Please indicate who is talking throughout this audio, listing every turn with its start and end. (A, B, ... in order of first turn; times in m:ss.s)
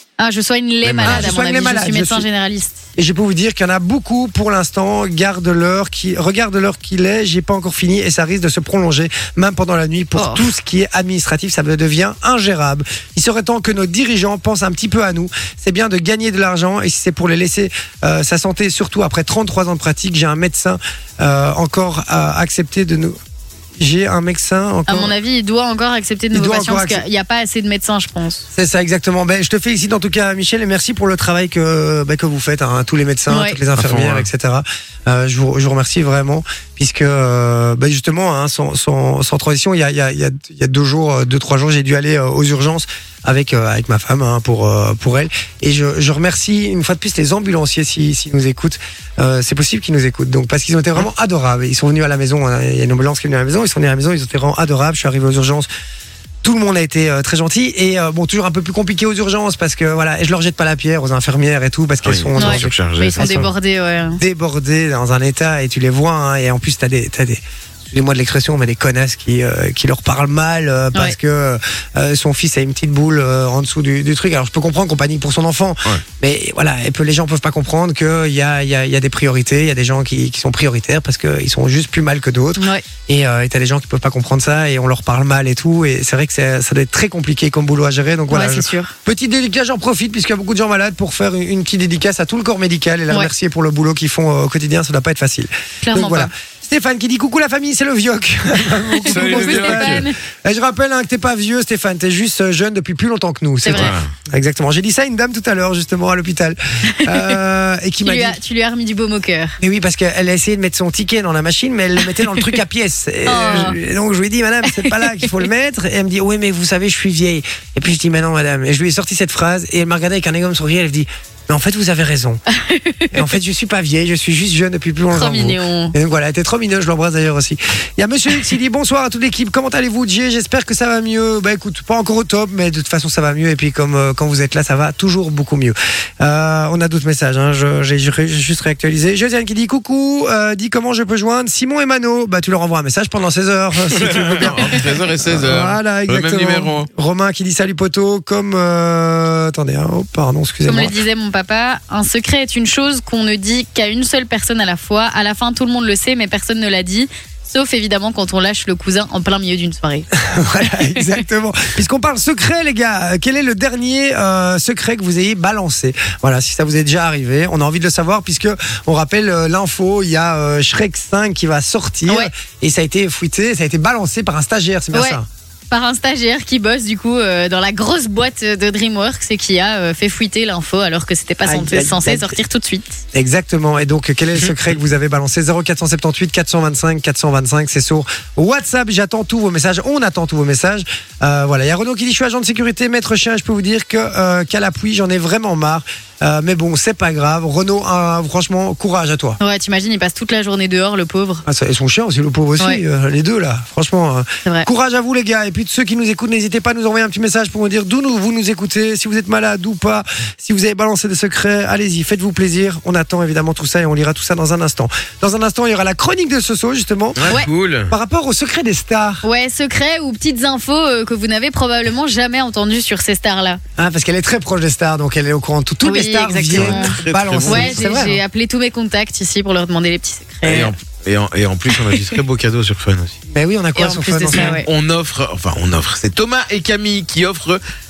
0:00.2-0:02.8 A
0:00.8-0:01.3 B
0:01.0-0:02.2 C
0:03.0-0:23.2 C
0:10.1-0:10.4 A
0:23.8-0:25.1 C
0:24.9-0:28.4 A
0:26.3-0:27.0 C
0:28.5-0:55.7 C
0:33.3-0:33.6 A
0:33.8-0:34.3 B
0:56.4-1:03.5 C
1:02.0-1:03.5 B
1:02.4-1:04.2 A
1:04.2-1:48.4 C
1:22.6-1:22.8 A
1:28.3-1:28.9 A
1:35.8-1:36.3 A
1:38.9-1:40.2 A
1:39.0-1:40.0 B
1:43.6-1:44.0 A
1:43.7-1:44.1 B
1:46.9-1:47.4 A
1:48.0-1:49.6 A
1:49.6-2:02.4 C
1:53.2-1:53.8 A
1:54.6-1:55.3 A
2:02.5-2:03.3 A
2:03.1-2:31.0 C
2:05.1-2:05.9 A
2:23.9-2:26.9 B
2:30.7-2:40.1 A
2:40.1-2:55.3 C
2:40.7-2:41.1 A
2:54.9-2:55.2 A
2:55.7-3:03.0 A
3:01.4-3:02.4 C
3:03.1-3:19.4 C
3:19.4-3:21.4 A
3:21.4-3:37.3 C
3:37.2-3:37.9 B
3:37.9-3:39.2 C
3:39.2-3:43.6 A
3:43.8-3:48.2 C
3:45.8-3:46.9 A
3:46.5-3:47.9 B
3:47.4-3:50.7 A
3:50.4-3:53.2 B
3:53.3-3:54.6 C
3:53.8-3:54.7 A
3:54.4-3:57.6 B